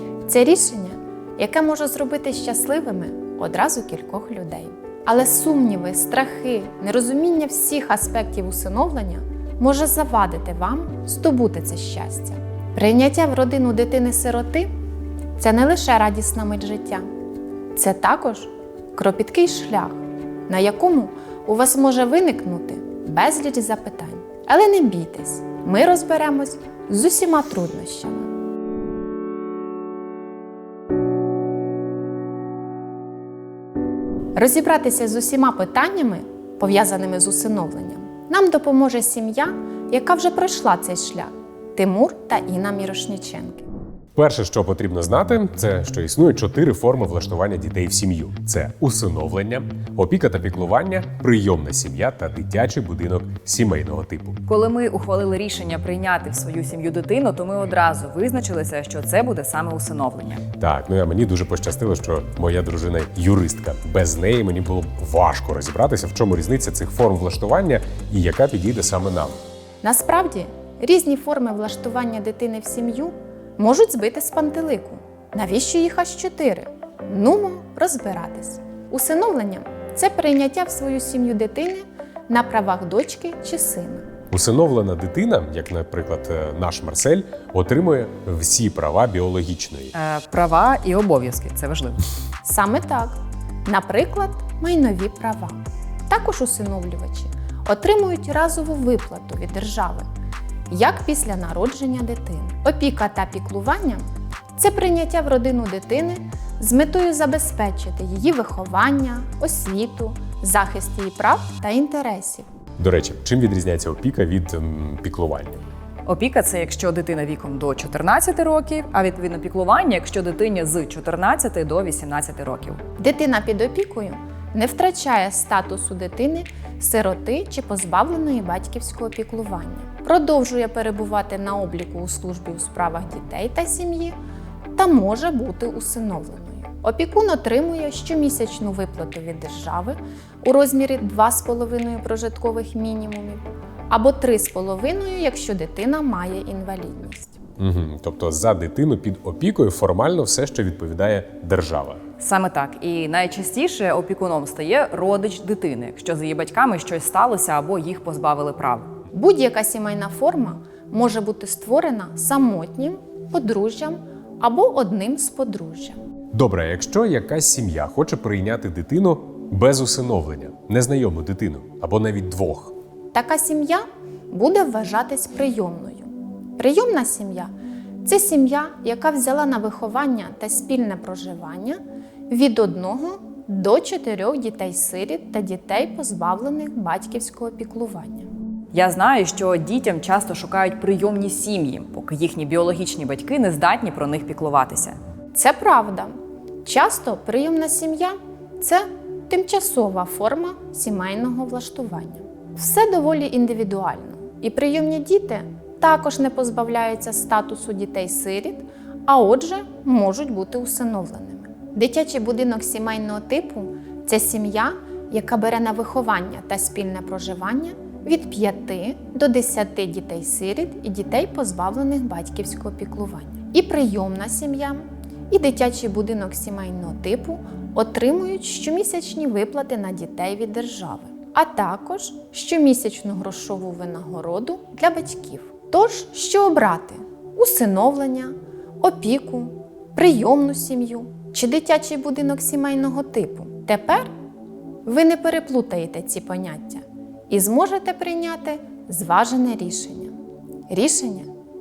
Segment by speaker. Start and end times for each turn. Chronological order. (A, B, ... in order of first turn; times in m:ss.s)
0:00.2-0:14.7 A
0:15.4-0:17.0 A
0:17.7-0:28.3 A
0:34.3-0:43.7 A
0:44.2-0:54.4 B
0:54.4-1:00.4 C
1:00.6-1:09.4 B
1:09.8-1:24.1 A
1:24.3-1:29.9 B
1:29.9-1:32.0 C
1:32.4-1:40.1 A
1:40.7-1:44.0 A
1:44.6-1:52.5 A
1:52.8-1:55.6 B
1:56.0-2:02.8 C
2:03.0-2:14.2 A
2:14.7-2:27.4 A
2:27.6-2:32.0 B
2:32.2-2:38.9 C
2:39.1-2:46.0 A
2:46.3-2:52.7 B
2:53.1-2:57.5 A
2:58.0-3:08.3 A
3:08.7-3:15.0 C
3:15.3-4:04.1 A
4:04.8-4:10.1 A
4:10.7-4:11.3 A